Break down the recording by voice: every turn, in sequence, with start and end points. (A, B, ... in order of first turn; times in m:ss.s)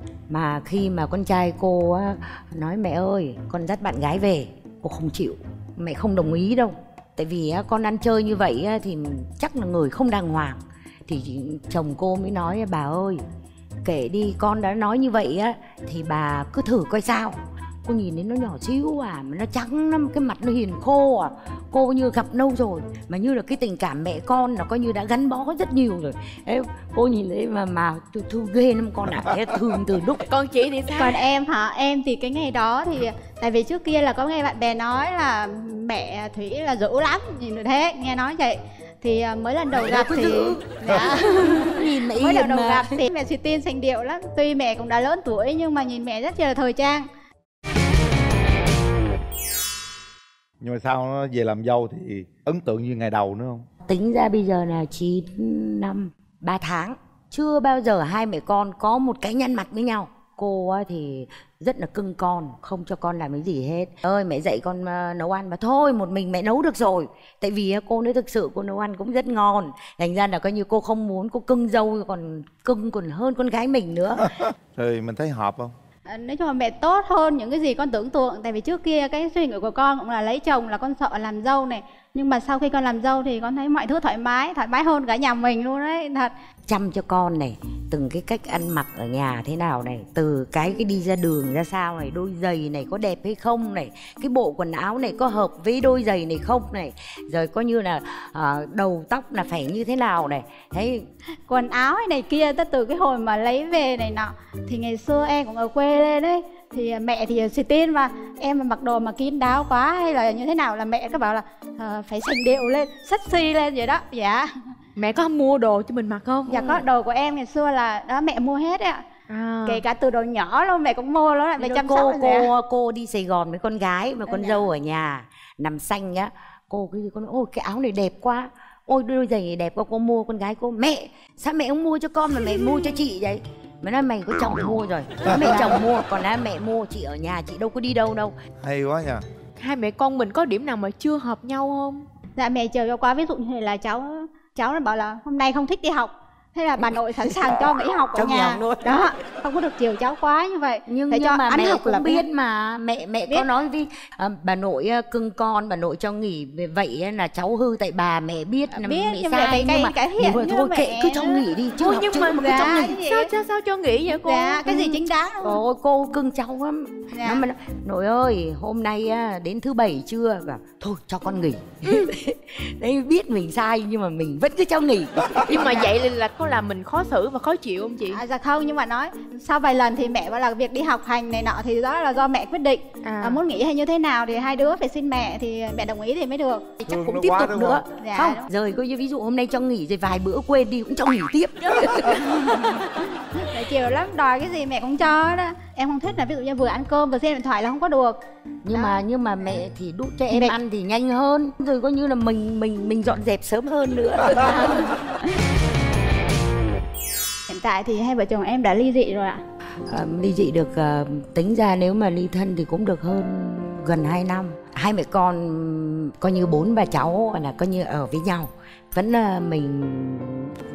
0:00.3-0:13.2 A
0:13.8-0:30.3 A
0:30.3-0:31.2 B
0:30.9-0:47.1 C
0:39.7-0:40.6 A
0:41.3-0:43.1 A
0:50.6-0:53.7 D
0:53.9-1:14.3 A
1:14.8-1:15.7 D
1:16.1-1:26.3 C
1:26.7-1:41.1 A
1:41.5-1:54.5 C
1:55.0-1:56.8 B
1:56.5-1:59.0 C
1:59.3-1:59.8 B
1:59.6-2:02.5 C
2:01.6-2:18.4 A
2:04.3-2:04.7 C
2:18.6-2:19.2 D
2:19.6-2:22.1 B
2:22.4-2:32.3 C
2:28.2-2:28.5 A
2:30.9-2:42.9 A
2:38.7-2:41.5 C
2:41.8-2:45.0 B
2:42.4-2:43.3 C
2:44.2-2:45.6 C
2:45.4-2:55.8 A
2:47.1-2:47.5 C
2:55.4-2:58.2 B
2:55.6-2:55.9 C
2:58.1-3:06.7 C
3:03.0-3:03.4 B
3:06.8-3:12.2 A
3:06.9-3:07.8 D
3:08.0-3:08.5 C
3:12.0-3:18.2 C
3:18.6-3:24.9 A
3:18.7-3:19.0 C
3:20.3-3:20.6 C
3:24.4-3:25.2 C
3:27.5-3:29.4 C
3:29.9-3:40.6 A